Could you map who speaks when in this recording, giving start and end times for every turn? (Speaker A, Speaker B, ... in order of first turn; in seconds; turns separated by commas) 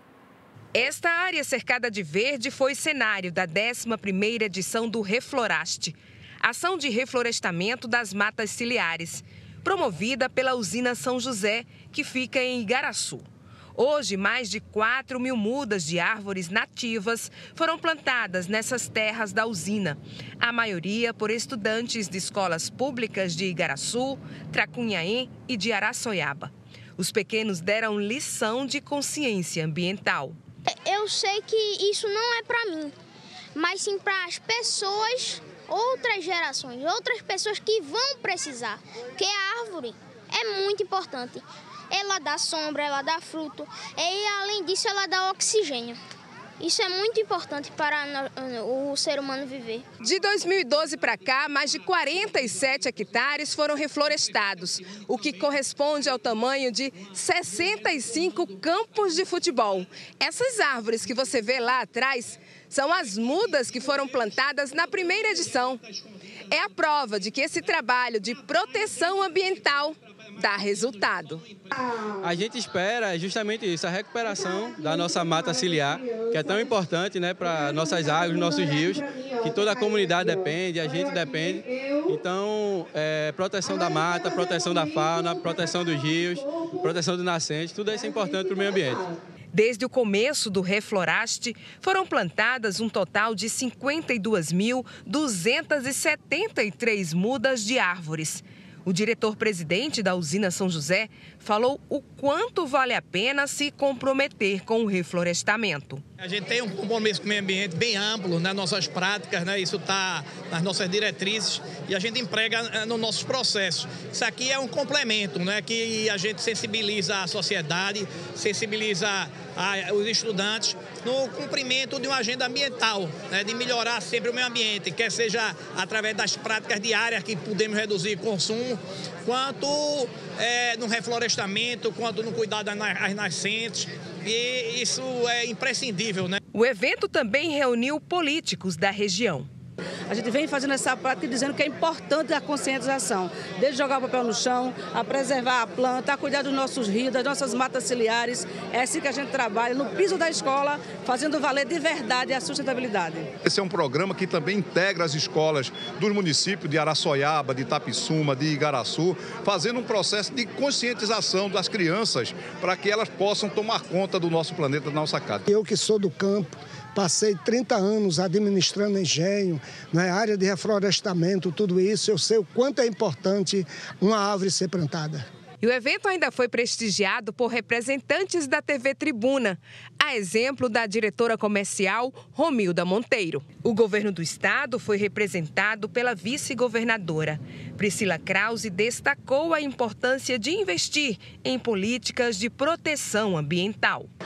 Speaker A: 0.7-30.4, Speaker B: 30.6-32.9, Speaker B: 33.5-46.0, Speaker B: 46.6-49.8, Speaker A: 50.0-65.8, Speaker A: 66.5-71.5, Speaker C: 72.2-89.1, Speaker A: 89.5-106.0, Speaker D: 106.2-136.4, Speaker A: 136.5-139.5, Speaker E: 140.1-153.3, Speaker F: 153.4-165.5, Speaker G: 165.5-175.2, Speaker A: 175.6-194.1